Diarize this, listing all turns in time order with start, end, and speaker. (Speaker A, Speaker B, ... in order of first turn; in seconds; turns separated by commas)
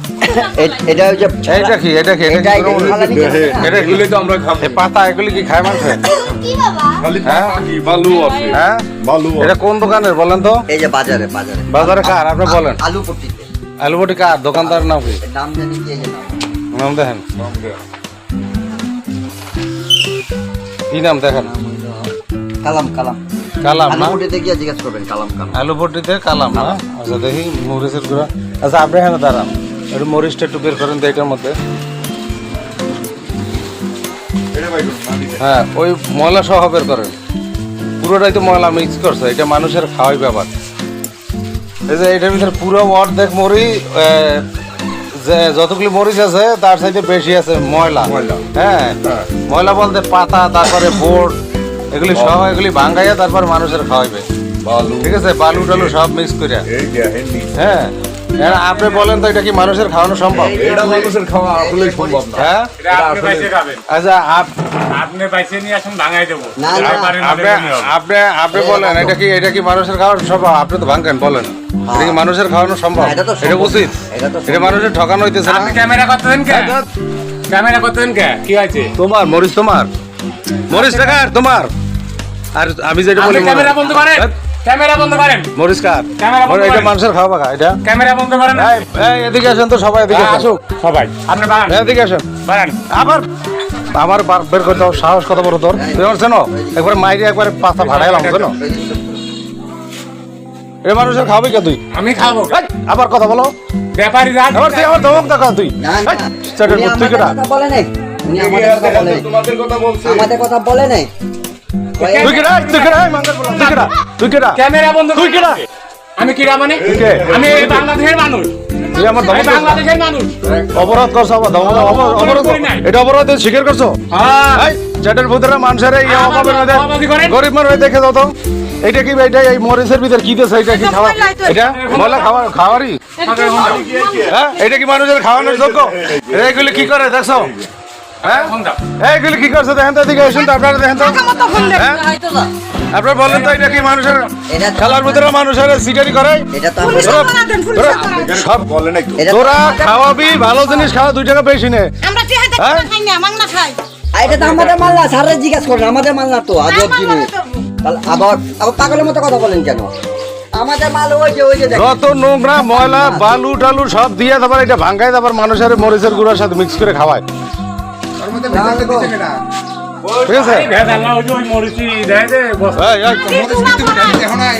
Speaker A: 0.2-3.9, Speaker B: 1.5-3.0, Speaker C: 2.7-4.8, Speaker B: 3.6-4.0, Speaker B: 4.6-6.1, Speaker D: 6.3-6.9, Speaker C: 6.9-9.5, Speaker B: 7.2-7.6, Speaker B: 8.5-10.6, Speaker A: 10.7-13.5, Speaker B: 11.7-12.8, Speaker B: 13.8-15.2, Speaker A: 14.6-16.5, Speaker B: 16.7-17.2, Speaker C: 17.4-17.8, Speaker B: 20.9-21.5, Speaker A: 21.4-22.1, Speaker A: 22.6-23.2, Speaker B: 23.6-24.2, Speaker A: 23.9-25.6, Speaker B: 25.5-31.6, Speaker A: 26.5-26.8, Speaker C: 34.5-35.4, Speaker B: 35.4-37.1, Speaker B: 38.0-40.5, Speaker B: 41.9-44.5, Speaker B: 45.1-51.4, Speaker C: 48.0-48.5, Speaker B: 51.9-54.2, Speaker C: 52.1-52.5, Speaker C: 54.6-56.0, Speaker B: 55.0-56.7, Speaker C: 56.7-57.5, Speaker B: 57.5-60.5, Speaker E: 58.5-59.0, Speaker A: 60.3-62.4, Speaker C: 60.5-63.5, Speaker B: 62.3-62.7, Speaker E: 62.8-63.8, Speaker B: 63.9-64.5, Speaker E: 64.9-67.9, Speaker A: 66.6-67.1, Speaker B: 66.8-75.8, Speaker A: 68.5-69.2, Speaker A: 71.9-72.2, Speaker A: 72.9-74.9, Speaker E: 75.4-76.8, Speaker B: 76.5-76.8, Speaker E: 77.5-78.9, Speaker B: 79.0-79.9, Speaker B: 80.7-81.7, Speaker E: 80.7-81.1, Speaker B: 82.5-84.3, Speaker E: 83.2-85.5, Speaker B: 85.5-87.8, Speaker E: 86.2-86.9, Speaker E: 87.8-88.8, Speaker B: 88.5-90.5, Speaker E: 90.1-91.8, Speaker B: 91.7-92.2, Speaker E: 92.4-92.8, Speaker B: 92.9-93.3, Speaker B: 93.9-98.5, Speaker A: 95.7-96.9, Speaker E: 97.7-98.5, Speaker A: 98.6-99.2, Speaker B: 100.8-101.8, Speaker E: 101.9-102.6, Speaker B: 102.5-103.5, Speaker E: 103.9-105.3, Speaker B: 104.5-107.3, Speaker A: 105.8-109.3, Speaker C: 108.3-110.3, Speaker A: 110.0-111.1, Speaker A: 112.0-112.3, Speaker E: 112.0-113.9, Speaker B: 112.2-114.6, Speaker E: 114.5-120.3, Speaker B: 115.1-115.6, Speaker C: 116.8-117.9, Speaker B: 116.8-117.4, Speaker B: 118.9-119.8, Speaker C: 120.4-121.0, Speaker B: 120.7-124.0, Speaker E: 121.6-122.8, Speaker E: 124.1-124.7, Speaker B: 124.5-133.0, Speaker E: 126.0-127.4, Speaker D: 130.7-131.6, Speaker E: 131.5-132.5, Speaker E: 133.2-133.9, Speaker C: 133.2-134.4, Speaker D: 133.3-134.2, Speaker B: 134.2-137.5, Speaker C: 135.3-137.7, Speaker E: 138.2-138.8, Speaker B: 138.2-142.1, Speaker D: 141.0-142.4, Speaker B: 142.9-148.7, Speaker E: 143.2-144.1, Speaker A: 144.5-145.3, Speaker A: 146.5-147.3, Speaker D: 146.8-148.4, Speaker C: 148.0-149.3, Speaker A: 149.2-150.2, Speaker B: 149.3-151.9, Speaker D: 152.0-153.8, Speaker B: 152.6-152.9, Speaker A: 154.1-157.3, Speaker C: 154.3-154.8, Speaker D: 156.7-157.4, Speaker A: 157.8-159.9, Speaker A: 160.5-162.0, Speaker B: 161.7-167.2, Speaker A: 162.5-163.4, Speaker C: 168.2-169.1, Speaker A: 168.4-169.2, Speaker C: 170.1-171.0, Speaker B: 170.2-170.7, Speaker E: 170.3-172.8, Speaker B: 172.8-173.4, Speaker D: 173.2-174.3, Speaker C: 173.3-174.5